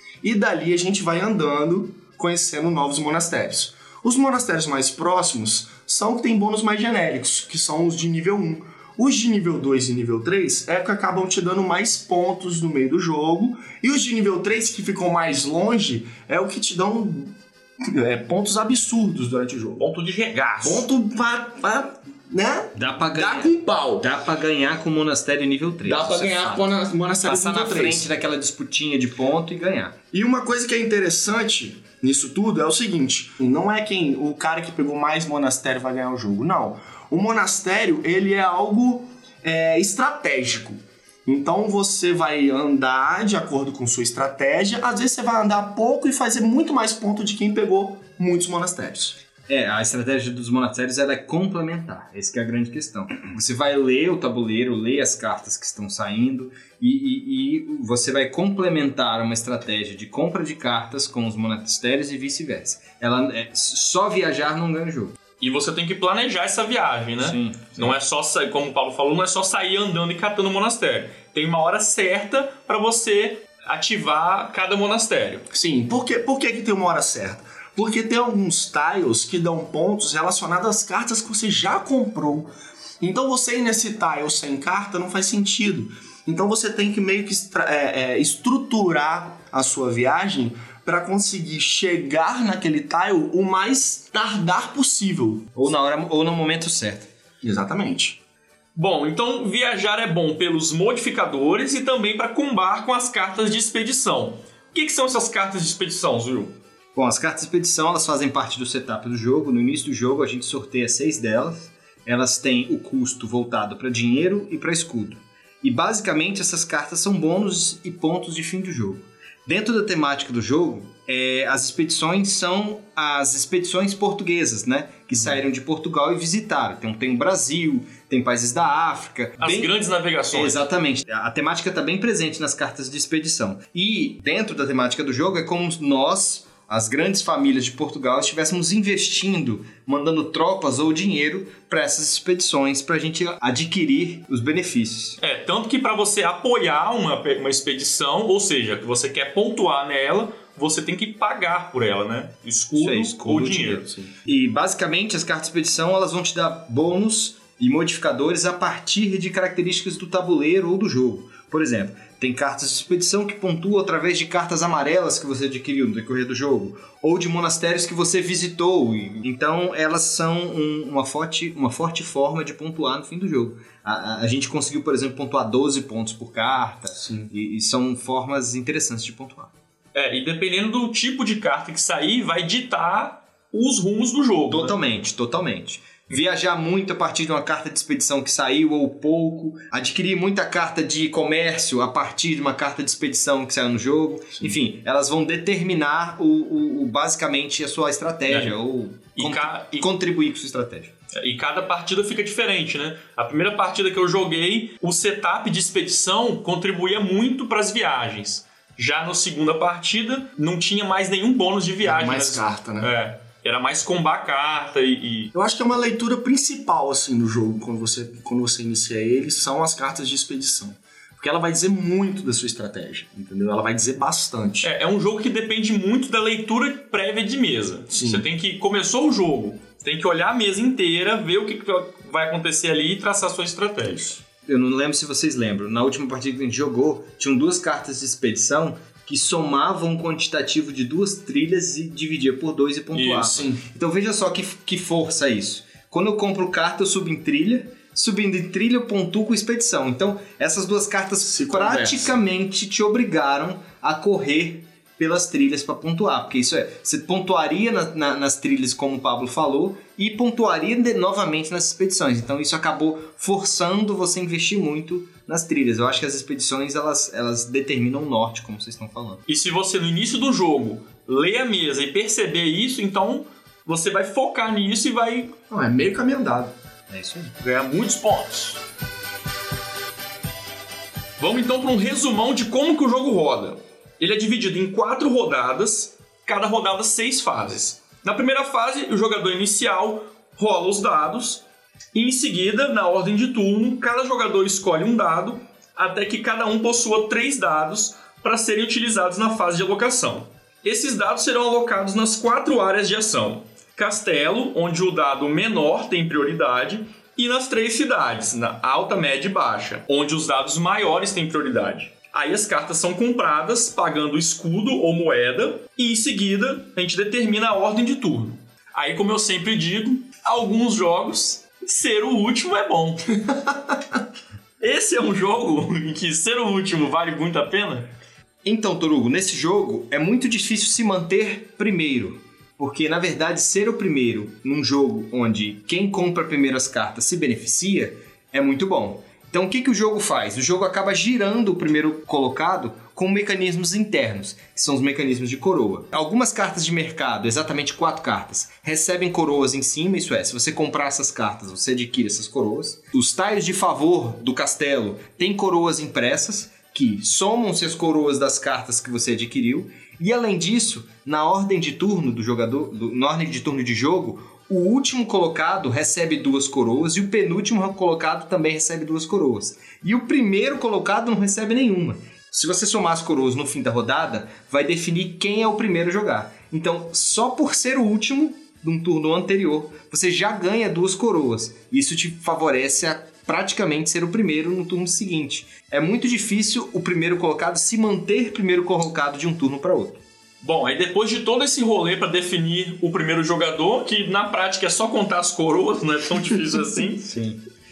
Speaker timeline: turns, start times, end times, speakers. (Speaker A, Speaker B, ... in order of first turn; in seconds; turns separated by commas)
Speaker A: 0.2-19.8, Speaker B: 19.8-20.9, Speaker A: 20.6-24.1, Speaker C: 22.8-26.7, Speaker A: 25.9-28.1, Speaker C: 27.2-30.0, Speaker A: 30.1-49.2, Speaker C: 49.5-65.2, Speaker B: 65.4-75.5, Speaker C: 67.2-67.8, Speaker A: 75.5-95.5, Speaker C: 95.5-97.1, Speaker A: 97.4-98.2, Speaker B: 98.8-106.5, Speaker C: 107.0-129.7, Speaker B: 129.4-130.6, Speaker C: 130.3-145.2, Speaker B: 145.2-153.9, Speaker C: 152.8-179.5, Speaker A: 177.0-177.3, Speaker B: 179.9-184.8, Speaker C: 184.5-200.9, Speaker B: 198.3-198.5, Speaker B: 199.2-199.9, Speaker B: 201.1-215.3, Speaker A: 211.8-212.9, Speaker A: 215.3-224.7, Speaker B: 224.6-234.2, Speaker A: 227.9-228.2, Speaker C: 234.5-269.2, Speaker B: 242.9-243.4, Speaker A: 243.3-243.6, Speaker A: 251.2-252.1, Speaker B: 269.3-275.4, Speaker A: 275.5-276.5, Speaker C: 276.9-277.3, Speaker B: 277.4-278.6, Speaker B: 281.2-291.4, Speaker B: 291.9-323.1, Speaker B: 324.6-327.9, Speaker C: 328.4-390.0, Speaker B: 390.4-397.1, Speaker C: 397.0-397.4